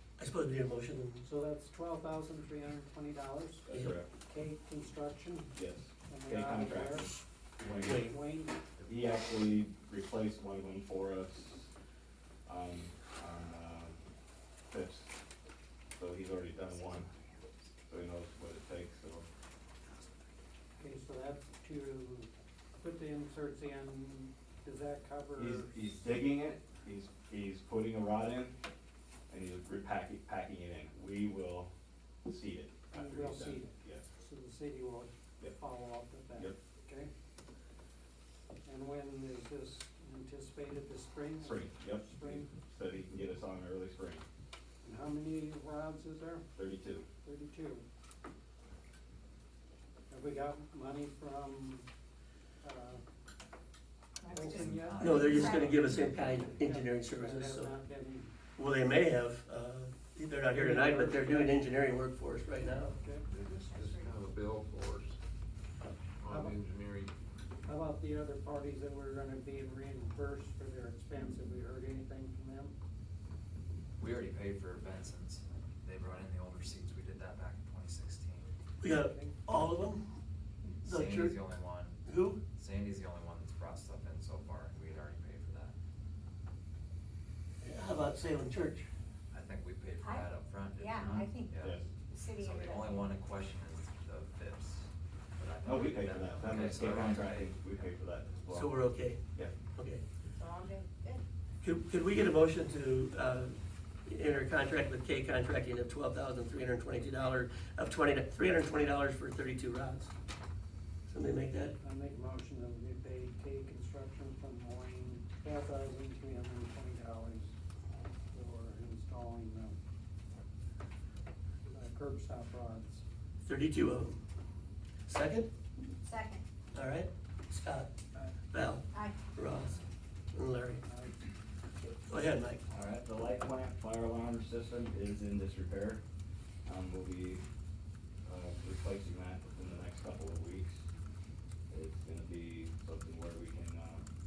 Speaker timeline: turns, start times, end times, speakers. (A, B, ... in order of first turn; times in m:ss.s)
0:00.2-0:01.2 A
0:01.2-0:03.7 B
0:03.7-0:04.1 C
0:03.7-0:04.0 A
0:04.2-0:05.6 B
0:05.6-0:08.1 C
0:06.1-0:08.6 B
0:07.9-0:08.1 A
0:08.8-0:11.7 C
0:12.5-0:14.0 C
0:14.7-0:15.1 C
0:16.0-0:17.1 C
0:16.7-0:17.5 D
0:17.9-0:19.3 C
0:20.8-0:25.8 B
0:25.4-0:28.6 C
0:29.3-0:31.7 C
0:32.2-0:34.1 C
0:32.9-0:37.1 B
0:38.6-0:42.5 B
0:41.4-0:44.2 C
0:44.8-0:46.5 B
0:46.6-0:47.1 C
0:47.2-0:47.8 B
0:50.1-0:51.9 B
0:52.6-0:53.0 B
0:54.2-0:56.6 D
0:54.3-0:55.8 B
0:54.9-0:57.7 A
0:56.4-0:58.3 B
0:58.6-1:03.0 A
1:00.6-1:01.7 B
1:02.7-1:03.3 B
1:03.3-1:05.2 E
1:06.2-1:07.1 E
1:06.3-1:06.6 B
1:07.7-1:12.8 B
1:14.0-1:18.5 D
1:18.8-1:20.0 A
1:18.9-1:19.4 B
1:20.8-1:22.0 D
1:20.8-1:21.4 A
1:22.1-1:22.4 A
1:22.6-1:25.8 D
1:27.6-1:28.9 A
1:29.3-1:37.9 D
1:30.8-1:31.5 F
1:31.6-1:31.8 C
1:32.1-1:33.1 F
1:35.6-1:38.8 C
1:38.5-1:39.2 A
1:39.7-1:40.0 A
1:40.4-1:41.2 F
1:41.6-1:50.1 A
1:51.1-1:51.8 A
1:51.8-1:57.5 B
1:58.3-1:59.8 B
2:01.7-2:03.0 B
2:03.4-2:04.2 A
2:05.1-2:05.5 A
2:06.0-2:06.4 F
2:06.7-2:07.9 A
2:08.4-2:09.8 A
2:08.9-2:09.2 F
2:10.3-2:10.8 A
2:10.8-2:11.2 B
2:11.9-2:12.6 A
2:12.7-2:16.0 C
2:16.7-2:17.4 C
2:18.3-2:20.8 C
2:21.7-2:24.0 C